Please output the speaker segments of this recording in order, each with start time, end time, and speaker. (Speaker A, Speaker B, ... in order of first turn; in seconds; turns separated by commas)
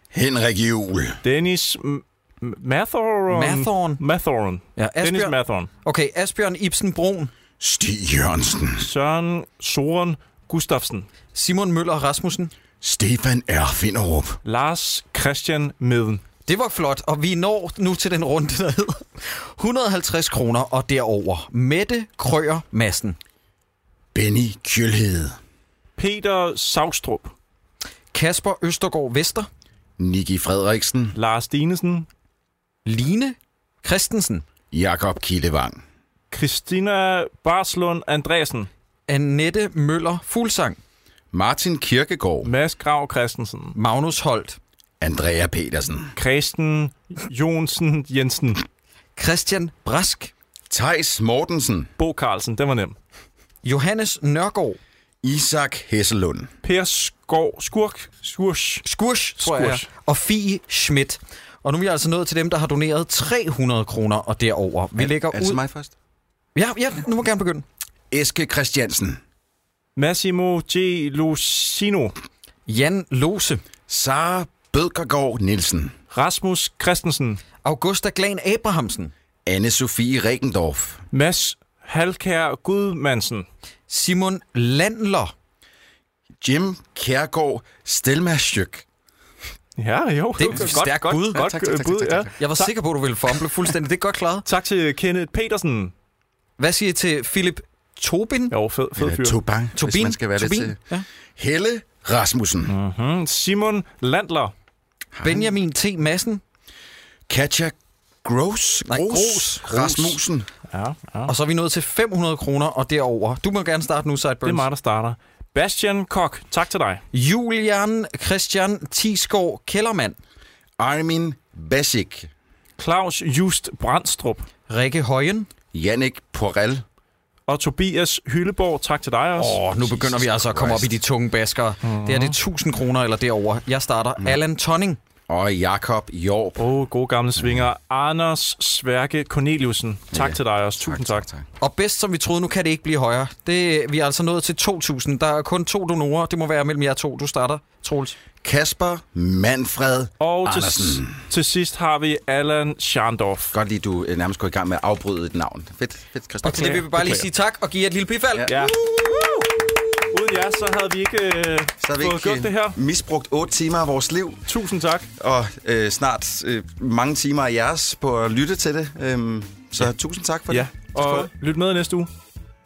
Speaker A: 0.1-1.2, Speaker B: 1.2-5.7, Speaker C: 3.3-4.0, Speaker C: 4.8-7.3, Speaker A: 7.6-8.8, Speaker B: 8.8-11.1, Speaker C: 11.3-12.5, Speaker A: 12.8-14.4, Speaker B: 14.4-16.2, Speaker C: 16.4-23.2, Speaker A: 24.1-25.4, Speaker B: 26.0-27.3, Speaker C: 28.1-29.5, Speaker A: 30.0-31.1, Speaker B: 31.1-32.0, Speaker C: 32.9-34.4, Speaker A: 34.7-35.8, Speaker B: 36.3-38.7, Speaker C: 39.1-40.8, Speaker A: 41.3-42.5, Speaker B: 42.4-43.7, Speaker C: 43.7-44.6, Speaker A: 45.0-46.1, Speaker B: 46.1-48.6, Speaker C: 49.2-50.3, Speaker A: 50.7-51.9, Speaker B: 52.0-52.9, Speaker C: 53.6-54.8, Speaker A: 55.2-56.5, Speaker B: 56.6-58.8, Speaker C: 58.8-65.6, Speaker B: 59.4-59.8, Speaker A: 65.0-65.9, Speaker C: 66.5-67.6, Speaker A: 68.1-69.2, Speaker B: 70.0-72.1, Speaker C: 72.7-73.6, Speaker A: 73.9-75.9, Speaker B: 76.1-77.4, Speaker C: 77.6-79.1, Speaker A: 79.5-81.0, Speaker B: 81.1-83.5, Speaker C: 83.9-85.3, Speaker A: 86.4-88.8, Speaker B: 89.8-92.7, Speaker C: 90.4-91.5, Speaker A: 90.5-92.3, Speaker C: 92.4-94.4, Speaker B: 94.5-95.9, Speaker C: 96.6-98.5, Speaker B: 98.5-99.4, Speaker A: 99.0-100.8, Speaker C: 99.8-101.0, Speaker A: 101.4-102.7, Speaker B: 102.7-104.5, Speaker A: 105.1-105.5, Speaker C: 105.2-106.4, Speaker A: 107.3-110.5, Speaker C: 108.9-110.2, Speaker B: 110.7-111.3, Speaker C: 111.3-114.7, Speaker B: 114.4-117.0, Speaker C: 117.1-120.2, Speaker A: 120.8-122.3, Speaker B: 122.8-124.5, Speaker C: 124.7-125.5, Speaker A: 125.7-126.8, Speaker B: 127.5-129.6, Speaker C: 129.4-135.0, Speaker A: 130.1-130.9, Speaker B: 131.8-132.3, Speaker A: 135.3-136.6, Speaker B: 136.6-141.2, Speaker A: 137.4-137.7, Speaker A: 140.1-141.4, Speaker C: 141.6-148.2, Speaker A: 148.4-151.2, Speaker B: 150.2-153.5, Speaker A: 153.5-156.8, Speaker C: 156.4-158.5, Speaker B: 156.5-157.2, Speaker A: 158.3-158.6, Speaker B: 158.5-159.4, Speaker B: 160.1-162.8, Speaker A: 161.8-164.4, Speaker B: 164.5-165.1, Speaker A: 165.2-170.7, Speaker B: 170.5-172.1, Speaker C: 171.0-171.3